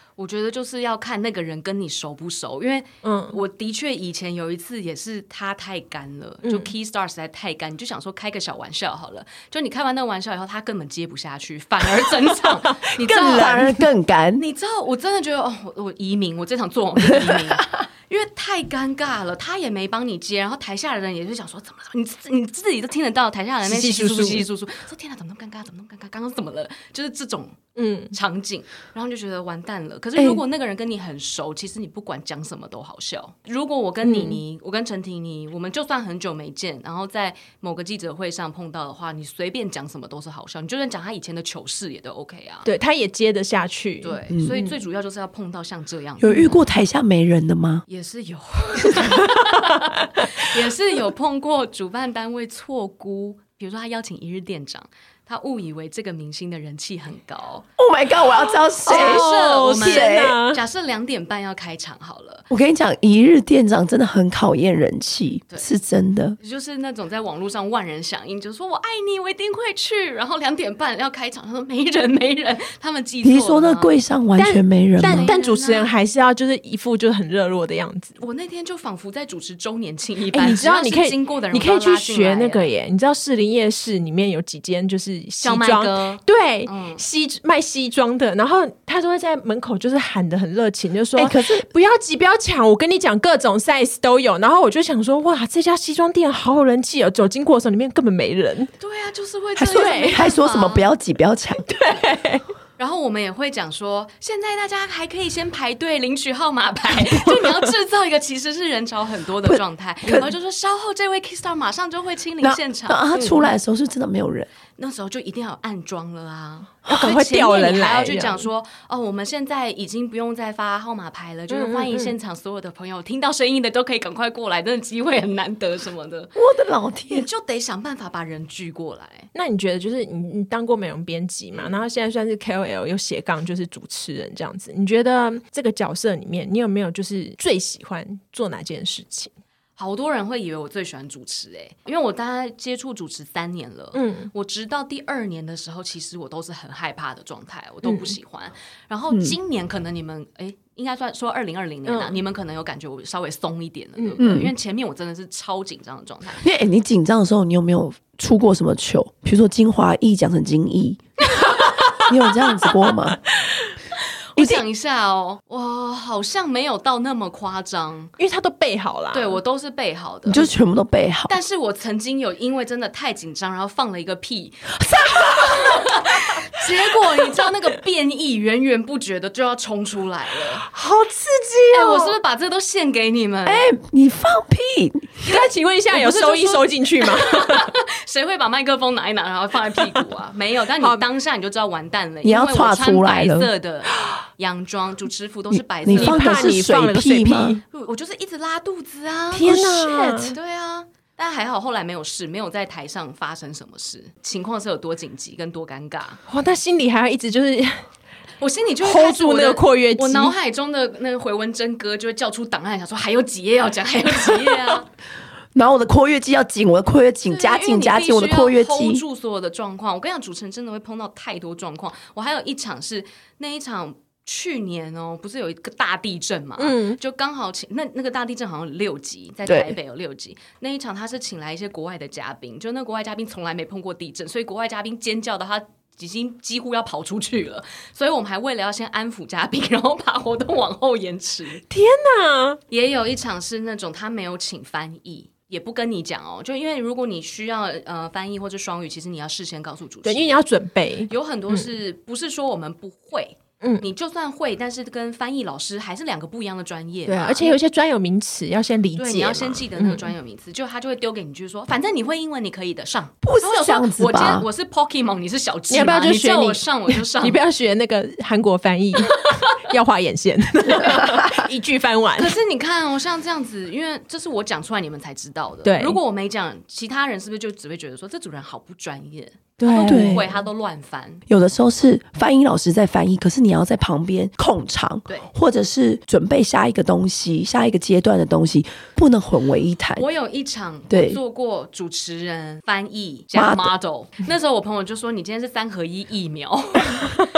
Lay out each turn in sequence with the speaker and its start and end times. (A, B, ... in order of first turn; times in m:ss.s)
0:00.2-0:13.8 A
0:03.0-0:03.4 B
0:06.4-0:06.7 B
0:13.0-0:14.4 C
0:13.3-0:13.7 B
0:14.4-0:27.6 A
0:23.6-0:24.5 B
0:27.8-0:28.1 B
0:28.1-0:42.7 A
0:30.2-0:30.4 C
0:34.0-0:34.4 B
0:42.6-0:44.7 B
0:44.0-0:46.6 A
0:44.3-0:44.6 C
0:46.2-0:47.8 C
0:47.9-0:57.7 A
0:57.8-1:00.4 C
0:58.8-1:00.6 B
0:58.9-1:02.5 A
1:02.5-1:06.4 C
1:06.4-1:13.9 A
1:13.2-1:15.3 C
1:14.4-1:18.2 B
1:15.0-1:15.9 A
1:18.2-1:22.7 A
1:20.3-1:38.7 B
1:25.4-1:27.0 A
1:31.2-1:31.7 C
1:38.8-1:40.9 A
1:39.6-1:41.8 C
1:39.7-1:40.2 B
1:41.7-1:42.4 B
1:42.8-1:53.2 A
1:49.5-1:50.3 C
1:52.4-1:54.5 C
1:54.8-2:06.4 A
1:56.9-1:58.5 B
2:01.5-2:02.1 B
2:06.4-2:07.3 C
2:07.1-2:09.3 A
2:09.3-2:19.3 B
2:11.5-2:11.8 A
2:19.8-2:36.4 A
2:23.9-2:24.3 B
2:27.8-2:28.2 B
2:29.1-2:29.4 C
2:31.9-2:32.2 B
2:34.2-2:34.5 C
2:36.4-2:41.0 C
2:41.4-2:42.1 B
2:42.0-2:43.2 C
2:44.3-2:48.1 A
2:44.4-2:44.6 C
2:48.2-2:49.4 B
2:49.1-2:50.5 A
2:50.3-2:51.3 C
2:51.3-3:00.7 A
2:54.8-2:55.8 C
3:00.6-3:02.2 B
3:01.7-3:03.7 A
3:03.5-3:05.3 C
3:05.2-3:07.7 B
3:05.9-3:16.6 A
3:10.8-3:11.0 B
3:12.2-3:13.5 C
3:15.5-3:17.6 C
3:15.9-3:17.6 B
3:17.7-3:26.2 A
3:19.3-3:20.4 B
3:19.4-3:20.2 C
3:26.3-3:27.8 B
3:28.4-3:34.9 A
3:28.8-3:30.4 B
3:35.6-3:39.0 C
3:37.2-4:01.6 A
3:46.6-3:47.0 B
3:49.5-3:49.8 C
4:01.7-4:02.6 B
4:02.7-4:10.4 A
4:10.0-4:11.7 B
4:11.1-4:17.6 A
4:17.1-4:20.1 B
4:19.0-4:27.4 A
4:23.2-4:24.5 C
4:25.7-4:32.4 B
4:32.2-4:41.2 A
4:35.6-4:36.0 B
4:39.6-4:40.3 B
4:39.8-4:40.3 C
4:41.3-4:50.0 C
4:50.0-4:57.1 A
4:50.9-4:51.2 C
4:53.3-4:53.7 C